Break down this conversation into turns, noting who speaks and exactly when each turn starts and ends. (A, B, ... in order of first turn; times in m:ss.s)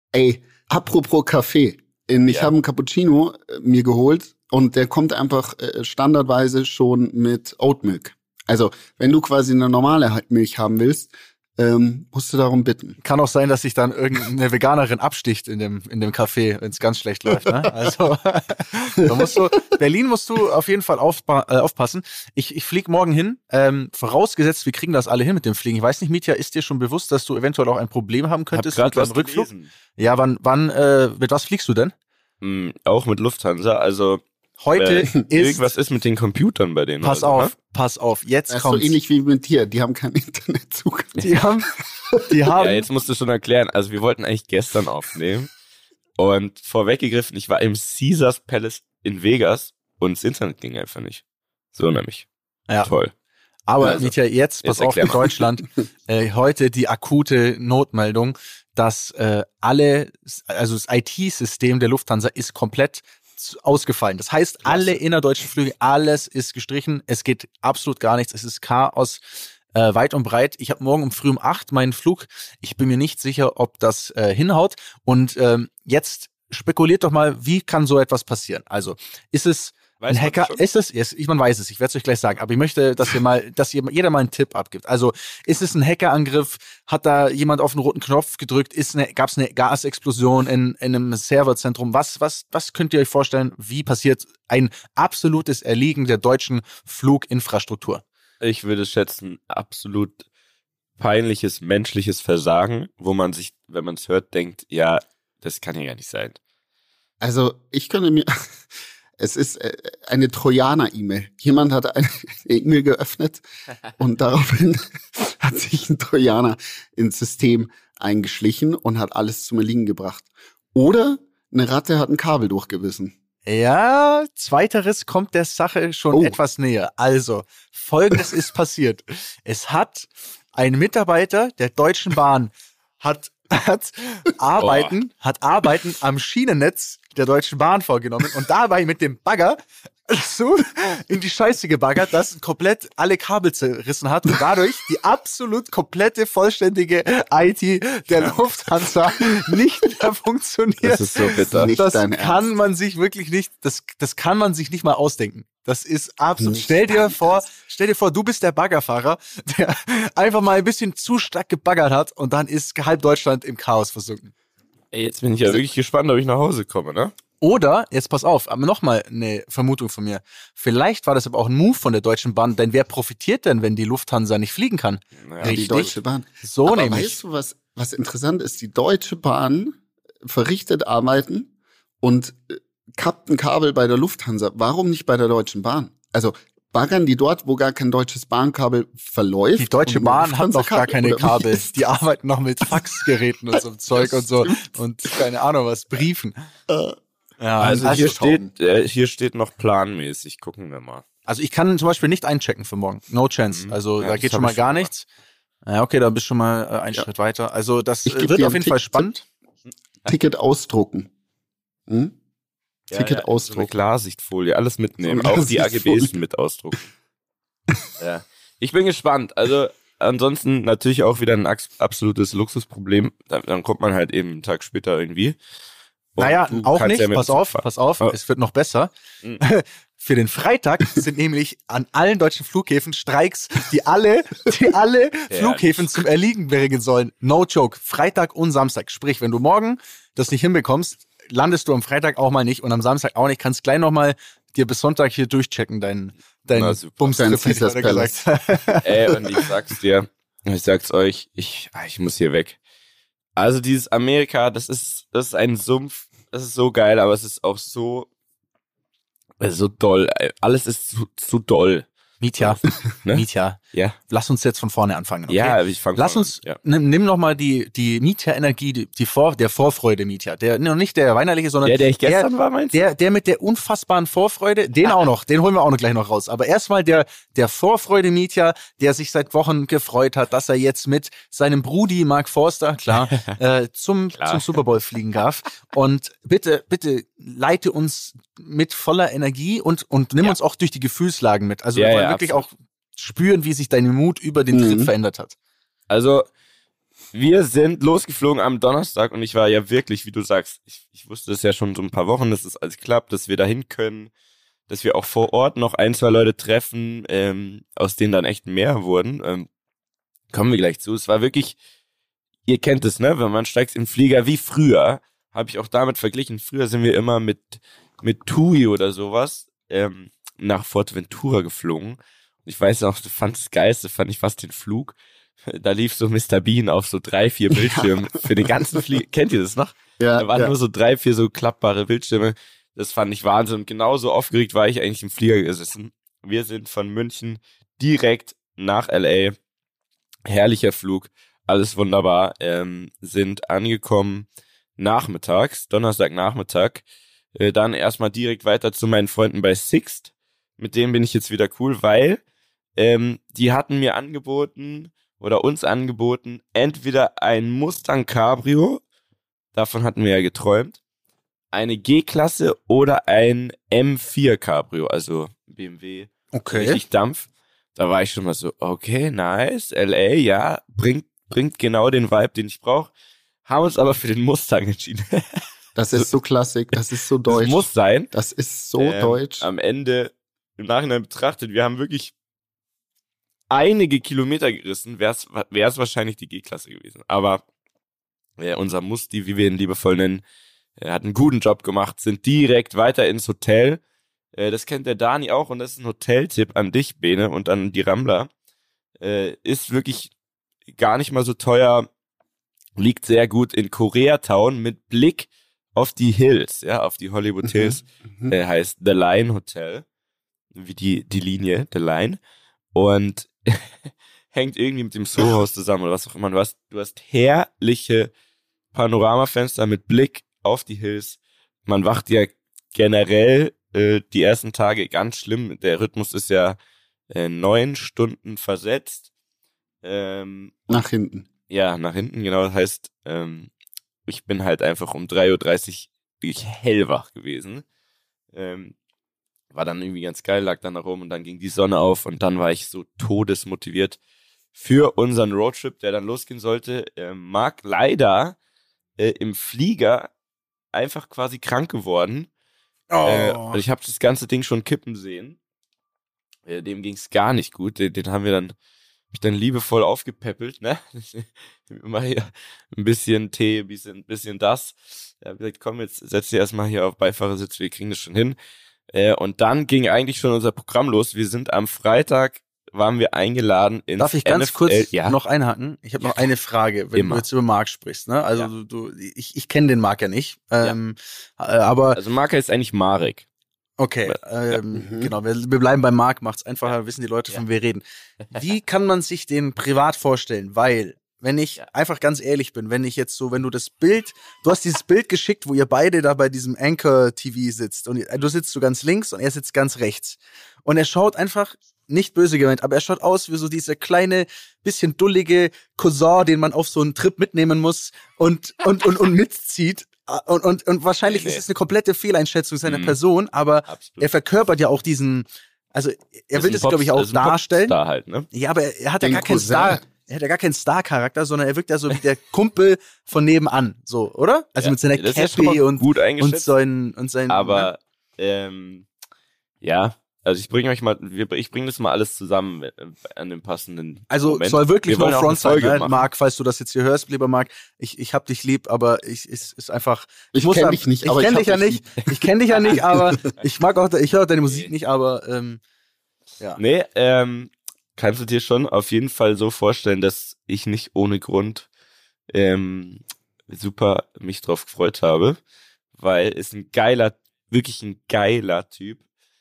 0:00.1-0:13.0 A
0:02.3-0:02.5 B
0:13.0-0:31.9 C
0:28.5-0:29.7 B
0:32.4-0:34.2 B
0:34.6-0:35.7 C
0:34.7-0:37.5 B
0:37.0-0:39.0 C
0:38.5-0:42.2 A
0:41.2-0:41.7 C
0:42.2-0:42.9 C
0:42.6-0:45.5 B
0:46.2-0:51.2 B
0:51.7-0:52.3 B
0:52.8-0:53.1 B
0:53.7-1:38.0 C
0:53.8-0:54.1 B
0:54.6-0:55.4 B
1:04.6-1:05.0 B
1:20.0-1:20.6 B
1:38.4-1:40.2 B
1:41.0-1:46.4 B
1:47.2-1:48.3 A
1:49.2-1:53.4 A
1:54.0-2:03.1 A
2:03.5-2:31.0 C
2:06.1-2:06.4 A
2:14.6-2:15.0 B
2:30.8-2:31.8 B
2:31.5-2:32.5 A
2:31.7-2:44.3 C
2:36.4-2:37.5 A
2:44.9-2:47.1 B
2:47.4-2:57.2 C
2:55.2-2:55.9 B
2:55.4-3:01.5 A
3:02.0-3:11.9 A
3:09.6-3:16.4 C
3:12.7-3:13.0 A
3:13.9-3:15.2 A
3:16.7-3:17.0 A
3:17.4-3:18.1 C
3:17.6-3:21.0 B
3:17.6-3:18.5 A
3:21.3-3:25.1 C
3:23.5-3:24.9 B
3:25.7-3:29.2 C
3:28.1-3:29.1 A
3:30.1-3:31.1 A
3:31.9-3:32.2 A
3:32.9-3:33.7 A
3:32.9-3:36.9 B
3:35.0-3:36.2 A
3:38.0-3:45.4 B
3:46.2-3:48.2 B
3:46.2-4:09.4 C
3:55.3-3:55.9 B
4:06.5-4:07.2 B
4:07.1-4:08.2 A
4:08.8-4:12.6 B
4:13.4-4:18.1 B
4:19.4-4:24.0 B
4:22.2-4:55.4 C
4:25.3-4:26.6 B
4:31.6-4:32.9 B
4:43.1-4:43.4 B
4:44.1-4:44.6 B
4:51.8-4:52.5 B
4:54.5-4:54.9 A
4:55.9-4:56.3 B
4:57.1-5:04.1 B
5:04.7-5:09.5 B
5:10.3-5:11.6 B
5:12.5-5:39.4 B
5:27.5-5:28.5 A
5:30.0-5:30.5 A
5:40.3-5:44.3 B
5:44.8-5:46.8 B
5:47.4-5:52.2 B
5:52.8-5:58.8 B
5:59.5-6:00.8 B
6:01.5-6:12.9 B
6:06.3-6:06.8 C
6:13.5-6:15.4 B
6:15.8-6:19.5 A
6:17.3-6:18.1 B
6:18.8-6:22.1 B
6:23.5-6:27.4 B
6:28.4-6:30.2 B
6:30.8-6:33.8 B
6:34.3-6:38.3 B
6:39.0-6:40.1 B
6:40.8-6:41.9 B
6:42.8-6:49.8 B
6:47.4-6:48.3 A
6:50.5-6:52.2 B
6:52.7-6:58.1 B
6:58.7-7:06.6 B
7:07.1-7:09.1 B
7:09.8-7:10.6 B
7:10.7-7:11.3 A
7:11.5-7:13.5 B
7:14.1-7:17.6 B
7:18.3-7:18.8 B
7:19.5-7:24.0 B
7:24.6-7:28.4 B
7:29.0-7:30.1 B
7:30.7-7:32.3 B
7:32.9-7:33.6 C
7:33.0-7:35.4 B
7:36.5-7:38.5 B
7:39.1-7:48.4 B
7:48.9-7:55.2 B
7:54.0-8:02.0 C
7:56.9-7:57.2 B
8:01.9-8:03.2 B
8:03.8-8:37.8 C
8:04.1-8:04.6 B
8:04.8-8:05.1 A
8:31.0-8:31.4 B
8:32.6-8:33.0 B
8:33.7-8:34.1 B
8:36.3-8:38.3 B
8:38.3-8:47.7 C
8:39.0-8:39.8 A
8:44.6-8:46.5 B
8:47.3-8:48.9 B
8:49.6-8:56.1 B
8:54.1-9:05.6 C
9:00.3-9:02.1 A
9:02.7-9:03.3 A
9:06.6-9:11.7 B
9:12.3-9:15.4 B
9:16.0-9:19.0 B